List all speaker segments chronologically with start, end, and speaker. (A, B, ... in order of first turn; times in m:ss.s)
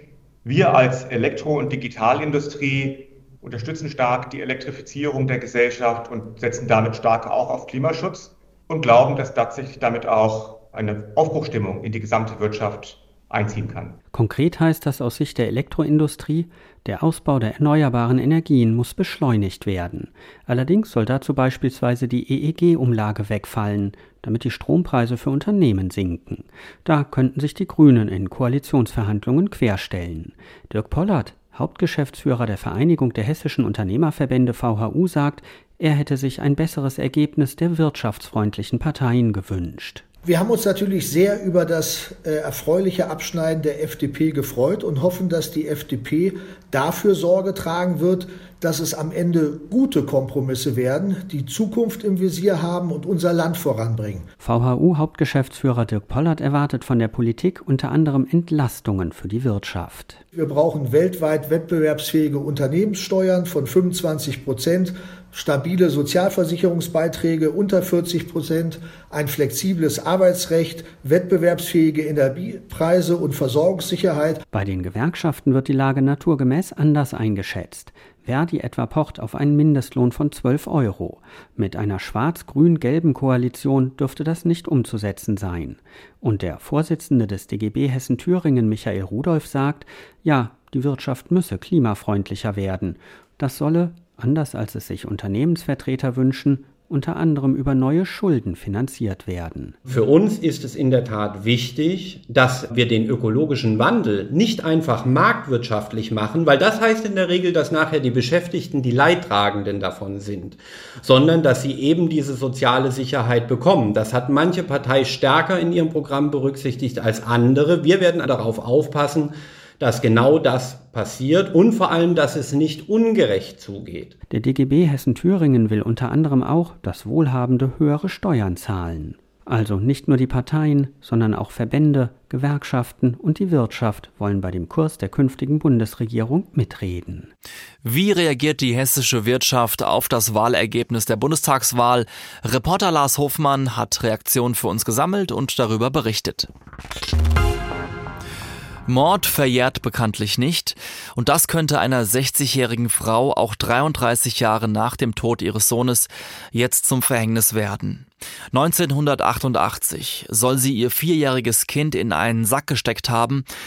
0:00.4-0:13.9 A
0:14.1-0:40.0 B
0:40.2-0:54.2 C
0:54.4-1:00.2 B
1:00.3-1:14.4 C
1:14.5-1:39.7 B
1:39.9-2:04.1 D
2:04.3-2:17.3 B
2:17.8-2:26.5 E
2:28.9-2:43.4 E